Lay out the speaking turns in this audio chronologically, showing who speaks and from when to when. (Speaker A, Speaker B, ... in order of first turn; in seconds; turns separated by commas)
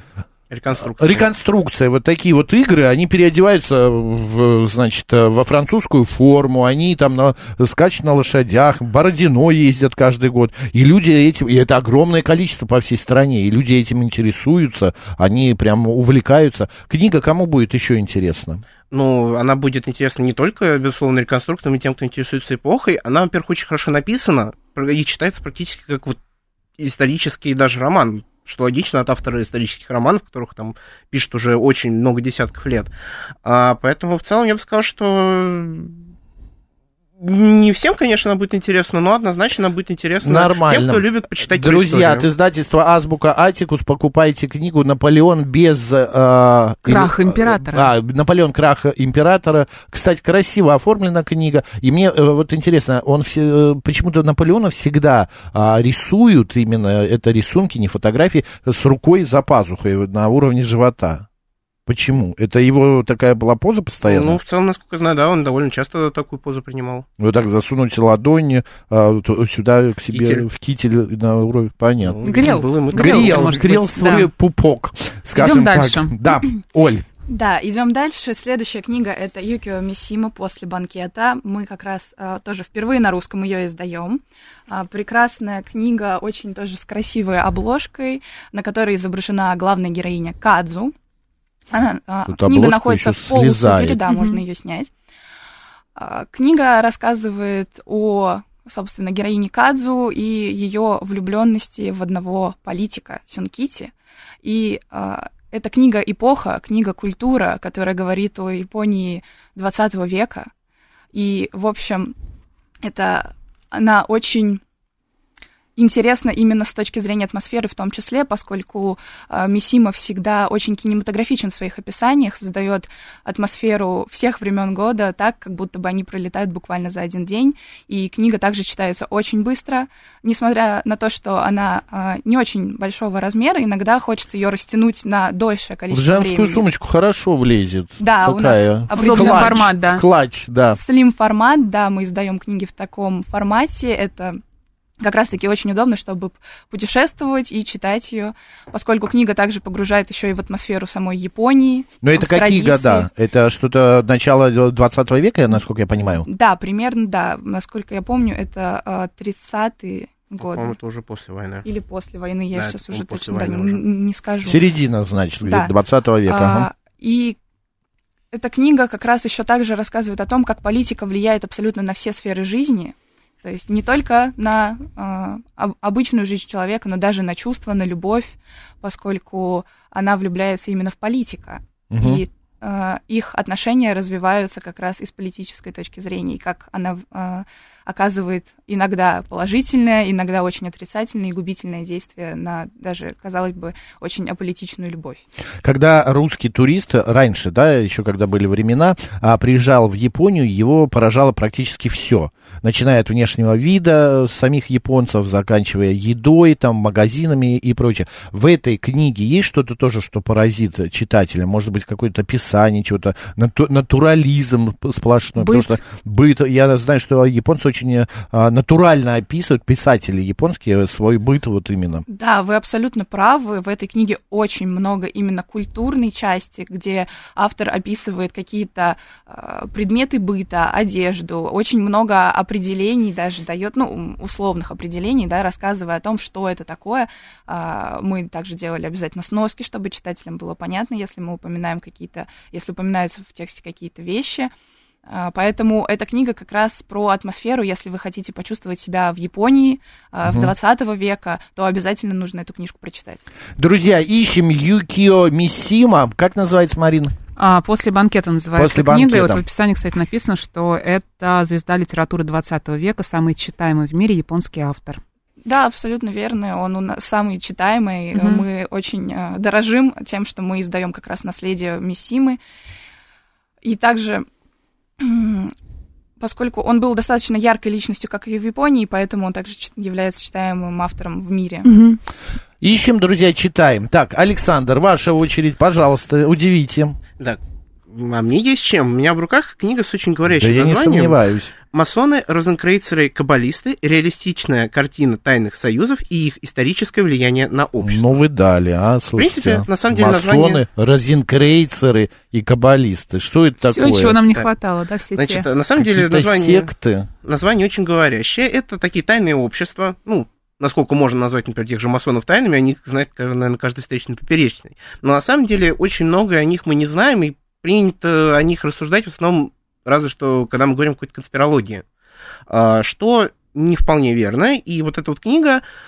Speaker A: 0.5-1.3, Speaker B: 0.8-18.6, Speaker A: 18.9-26.2, Speaker A: 26.8-32.9, Speaker A: 33.4-36.0, Speaker A: 37.2-42.2, Speaker B: 40.2-61.2, Speaker C: 46.9-47.9, Speaker B: 61.9-64.4, Speaker A: 64.0-67.0, Speaker B: 67.2-77.0, Speaker A: 70.1-70.4, Speaker A: 72.0-73.7, Speaker C: 72.2-74.3, Speaker C: 75.3-76.1, Speaker D: 77.3-90.9, Speaker D: 91.7-94.9, Speaker B: 92.3-94.0, Speaker C: 94.1-94.4, Speaker D: 96.0-103.9, Speaker D: 104.4-110.5, Speaker D: 111.1-112.1, Speaker D: 112.8-114.6, Speaker D: 115.8-136.6, Speaker B: 135.9-140.8, Speaker D: 138.0-139.7, Speaker C: 138.9-140.0, Speaker D: 140.7-144.4, Speaker D: 145.0-153.1, Speaker B: 152.0-156.2, Speaker D: 156.2-160.7, Speaker A: 160.4-161.6, Speaker D: 161.6-164.6, Speaker A: 162.5-163.8, Speaker B: 164.4-166.7, Speaker D: 165.4-165.7, Speaker D: 166.2-167.4, Speaker D: 168.3-195.2, Speaker B: 181.9-182.2, Speaker B: 195.6-222.0, Speaker C: 215.4-215.8, Speaker D: 222.1-244.5, Speaker D: 245.1-253.2, Speaker B: 250.2-250.5, Speaker B: 253.6-257.1, Speaker C: 257.4-265.0, Speaker B: 258.6-259.4, Speaker D: 265.4-272.4, Speaker C: 268.1-268.4, Speaker D: 273.6-274.2, Speaker D: 275.0-275.5, Speaker D: 276.2-281.7, Speaker C: 281.6-282.0, Speaker B: 282.6-287.0, Speaker A: 287.2-291.2, Speaker B: 290.3-291.5, Speaker A: 291.7-298.1, Speaker B: 297.8-304.2, Speaker A: 299.2-300.6, Speaker C: 303.6-305.5, Speaker A: 305.1-306.7, Speaker B: 305.8-307.1, Speaker A: 307.2-321.8, Speaker A: 322.5-325.6